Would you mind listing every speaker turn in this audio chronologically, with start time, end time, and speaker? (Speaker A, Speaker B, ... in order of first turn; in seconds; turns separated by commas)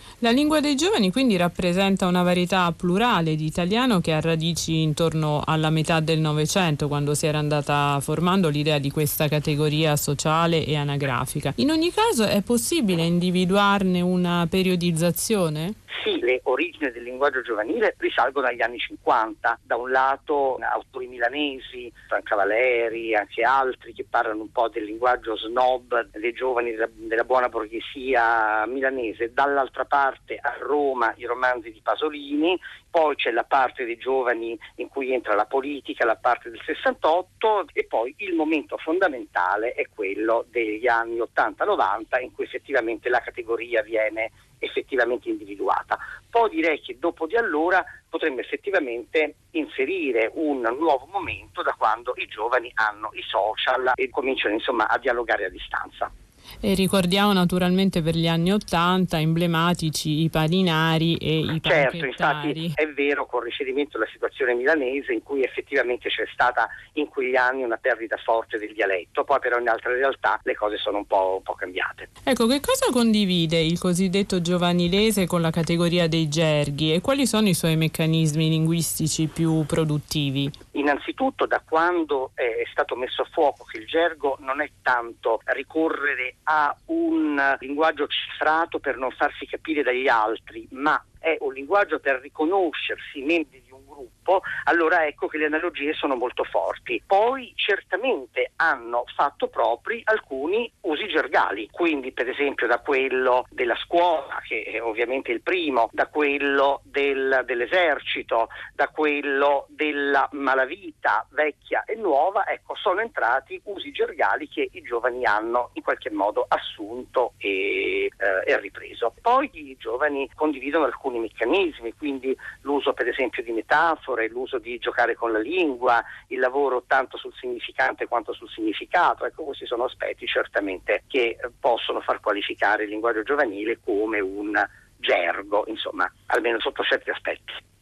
Speaker A: 0.2-15.8, Speaker B: 15.9-56.1, Speaker A: 56.6-62.8, Speaker B: 61.6-72.1, Speaker A: 72.3-80.5, Speaker B: 80.7-137.6